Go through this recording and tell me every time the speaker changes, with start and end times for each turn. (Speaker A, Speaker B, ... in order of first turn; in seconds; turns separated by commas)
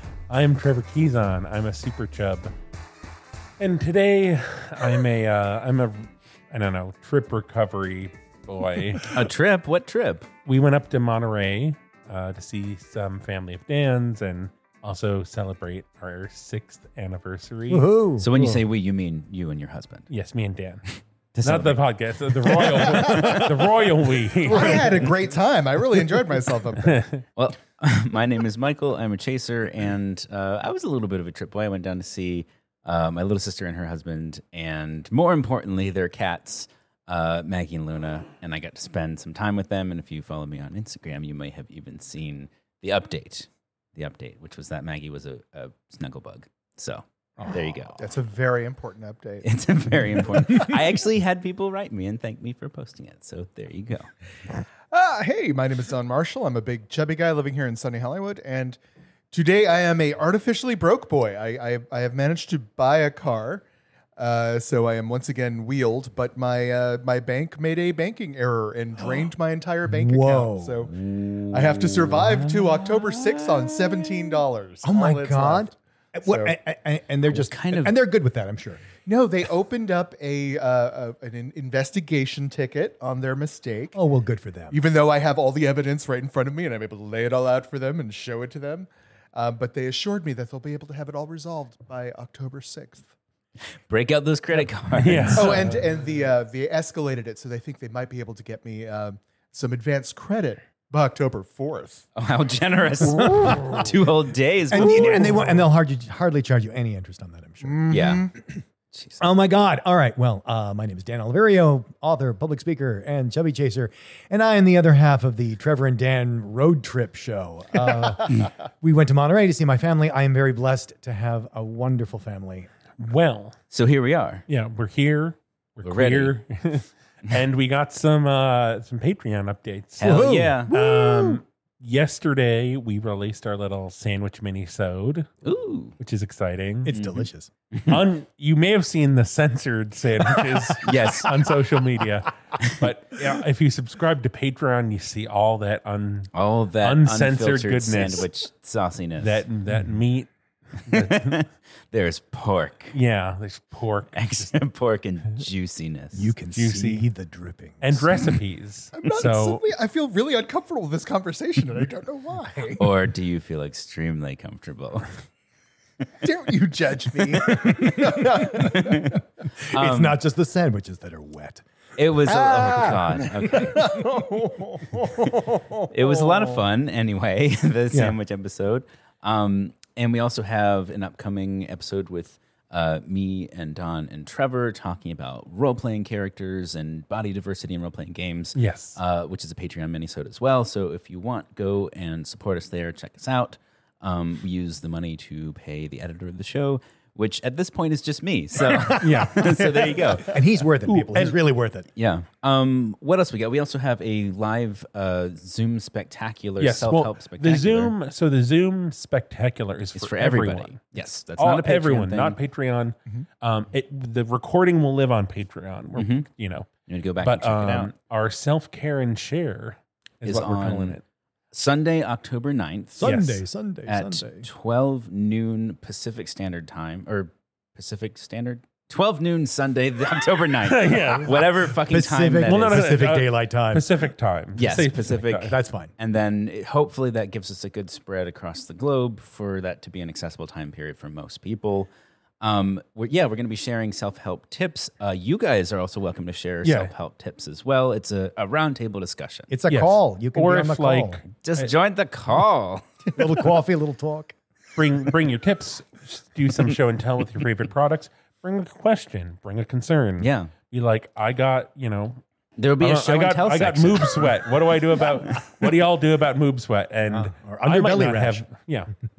Speaker A: 0.3-2.5, Speaker A: 3.6-9.2, Speaker B: 9.1-10.3, Speaker A: 10.5-18.6, Speaker C: 17.7-18.3, Speaker B: 18.2-20.1, Speaker A: 20.1-20.9, Speaker B: 21.3-23.5, Speaker A: 21.4-25.1, Speaker C: 22.9-23.5, Speaker D: 24.5-27.0, Speaker A: 26.8-27.2, Speaker B: 27.4-48.0, Speaker D: 48.0-49.5, Speaker B: 49.4-54.1, Speaker D: 54.9-58.8, Speaker D: 59.3-63.6, Speaker D: 64.2-75.7, Speaker C: 69.9-70.9, Speaker B: 70.9-74.0, Speaker C: 74.8-78.8, Speaker D: 76.2-76.5, Speaker B: 77.3-78.0, Speaker D: 79.0-84.0, Speaker C: 84.0-84.8, Speaker D: 84.7-93.1, Speaker B: 93.8-95.7, Speaker A: 95.0-95.8, Speaker D: 95.3-102.1, Speaker B: 102.2-105.5, Speaker C: 103.1-103.9, Speaker C: 104.7-108.6, Speaker D: 104.8-105.4, Speaker D: 107.6-108.3, Speaker B: 107.9-108.3, Speaker B: 108.9-109.2, Speaker C: 109.2-122.7, Speaker A: 123.0-123.6, Speaker B: 123.7-124.5, Speaker A: 124.5-135.3, Speaker B: 125.8-126.4, Speaker B: 130.0-130.8, Speaker C: 130.0-131.4, Speaker B: 135.4-136.0, Speaker A: 136.0-136.9, Speaker C: 136.8-137.5, Speaker B: 136.9-138.0, Speaker A: 137.9-148.3, Speaker B: 140.8-141.3, Speaker B: 146.3-149.4, Speaker A: 149.2-151.4, Speaker B: 150.9-152.9, Speaker A: 152.9-154.5, Speaker B: 154.1-156.3, Speaker C: 156.1-158.2, Speaker A: 156.5-157.1, Speaker A: 157.8-159.6, Speaker D: 158.9-162.9, Speaker B: 162.8-165.2, Speaker D: 166.2-168.8, Speaker B: 167.3-170.2, Speaker C: 167.5-171.7, Speaker B: 172.0-173.8, Speaker C: 172.2-174.2, Speaker D: 173.8-176.6, Speaker B: 175.9-200.4, Speaker A: 188.6-189.0, Speaker A: 199.0-199.8, Speaker C: 200.2-201.9, Speaker A: 200.8-201.3, Speaker B: 201.9-207.9, Speaker A: 206.6-221.0, Speaker B: 210.0-212.4, Speaker B: 216.0-216.3, Speaker B: 216.9-217.9, Speaker B: 220.2-221.0, Speaker B: 221.5-223.2, Speaker C: 223.0-224.5, Speaker A: 223.0-223.4, Speaker B: 223.9-232.9, Speaker A: 230.6-231.5, Speaker C: 231.0-233.9, Speaker A: 232.4-235.6, Speaker B: 234.6-241.9, Speaker C: 235.4-235.9, Speaker B: 242.4-249.5, Speaker A: 246.6-246.9, Speaker C: 249.5-251.2, Speaker A: 249.7-251.7, Speaker B: 251.4-253.1, Speaker C: 253.2-254.3, Speaker A: 254.8-262.2, Speaker B: 260.2-260.5, Speaker B: 262.6-264.3, Speaker A: 262.8-268.9, Speaker C: 267.1-268.5